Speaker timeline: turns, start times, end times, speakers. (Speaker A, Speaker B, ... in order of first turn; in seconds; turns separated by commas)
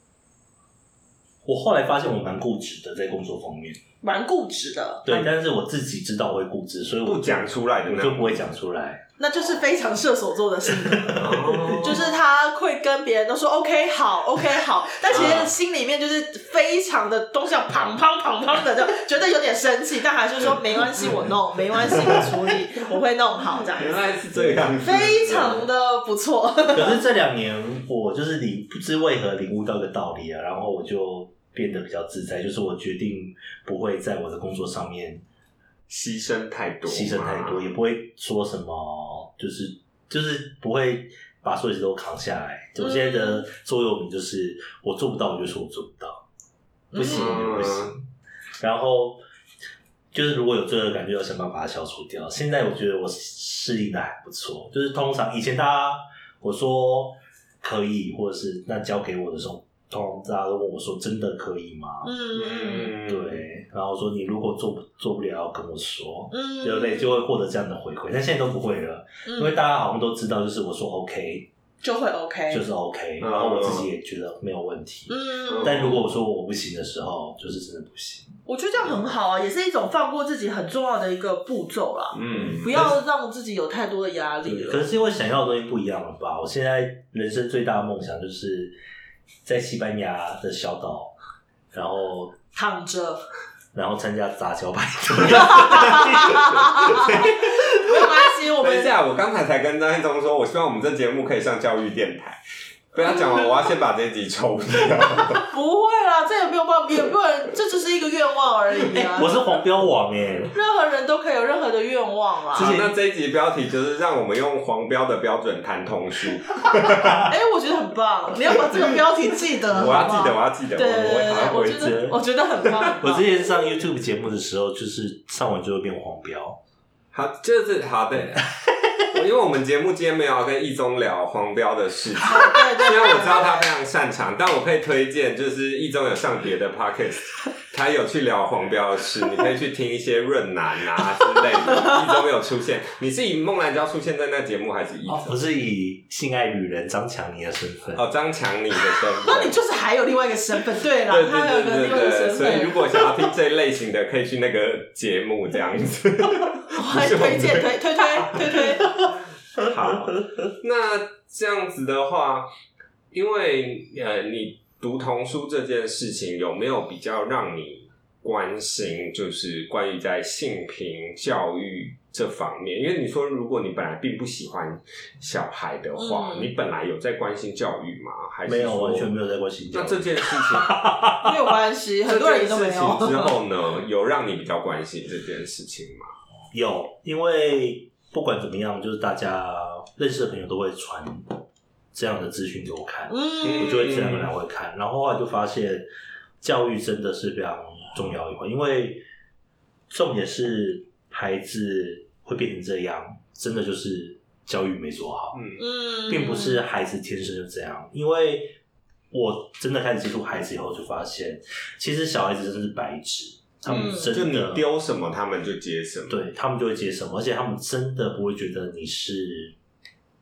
Speaker A: 1.4-3.8, Speaker B: 4.0-5.1, Speaker A: 5.0-9.0, Speaker C: 7.0-8.5, Speaker B: 9.2-24.1, Speaker A: 10.9-11.9, Speaker C: 11.2-12.1, Speaker C: 15.1-15.5, Speaker C: 23.7-25.7, Speaker A: 24.3-24.8, Speaker B: 24.8-27.0, Speaker A: 26.7-35.2, Speaker C: 35.9-37.6, Speaker A: 36.9-46.2, Speaker B: 42.8-43.4, Speaker B: 46.9-47.4, Speaker A: 46.9-48.0, Speaker C: 47.0-47.9, Speaker A: 48.6-49.2, Speaker A: 50.1-62.1, Speaker B: 62.0-62.9, Speaker C: 62.3-63.4, Speaker A: 63.0-71.5, Speaker B: 66.3-67.2, Speaker B: 69.2-69.6, Speaker B: 71.8-72.7, Speaker A: 72.5-78.4, Speaker C: 73.2-73.9, Speaker B: 75.1-75.8, Speaker C: 75.5-76.0, Speaker B: 78.5-84.9, Speaker C: 82.1-82.9, Speaker A: 82.3-82.9, Speaker A: 84.4-88.8, Speaker A: 89.4-91.1, Speaker A: 91.7-92.4, Speaker B: 92.5-93.2, Speaker A: 93.7-97.3, Speaker B: 95.3-98.9, Speaker C: 96.9-97.3, Speaker C: 98.0-102.4, Speaker C: 102.9-105.5, Speaker B: 105.2-109.5, Speaker A: 108.9-110.5, Speaker B: 110.5-112.7, Speaker C: 112.5-117.3, Speaker A: 112.5-112.9, Speaker B: 117.2-123.3, Speaker C: 119.7-122.1, Speaker A: 121.6-122.2, Speaker C: 122.6-122.9, Speaker A: 123.0-126.6, Speaker C: 127.1-128.5, Speaker C: 129.0-145.3, Speaker B: 132.2-133.7, Speaker A: 145.1-148.0, Speaker C: 147.9-149.6, Speaker B: 149.2-153.1, Speaker C: 151.1-162.5, Speaker B: 156.7-158.9, Speaker C: 163.1-179.1, Speaker B: 175.9-176.5, Speaker A: 178.4-181.3, Speaker C: 179.7-180.8, Speaker B: 181.2-183.3, Speaker C: 182.0-186.1, Speaker A: 186.5-191.4, Speaker A: 191.9-195.9, Speaker B: 193.1-193.8, Speaker C: 193.4-194.3, Speaker A: 196.4-199.0, Speaker A: 199.9-205.4, Speaker C: 205.3-205.6, Speaker B: 205.6-206.6, Speaker A: 206.1-208.5, Speaker A: 209.1-214.7, Speaker C: 213.7-216.2, Speaker B: 213.7-214.1, Speaker A: 216.1-219.6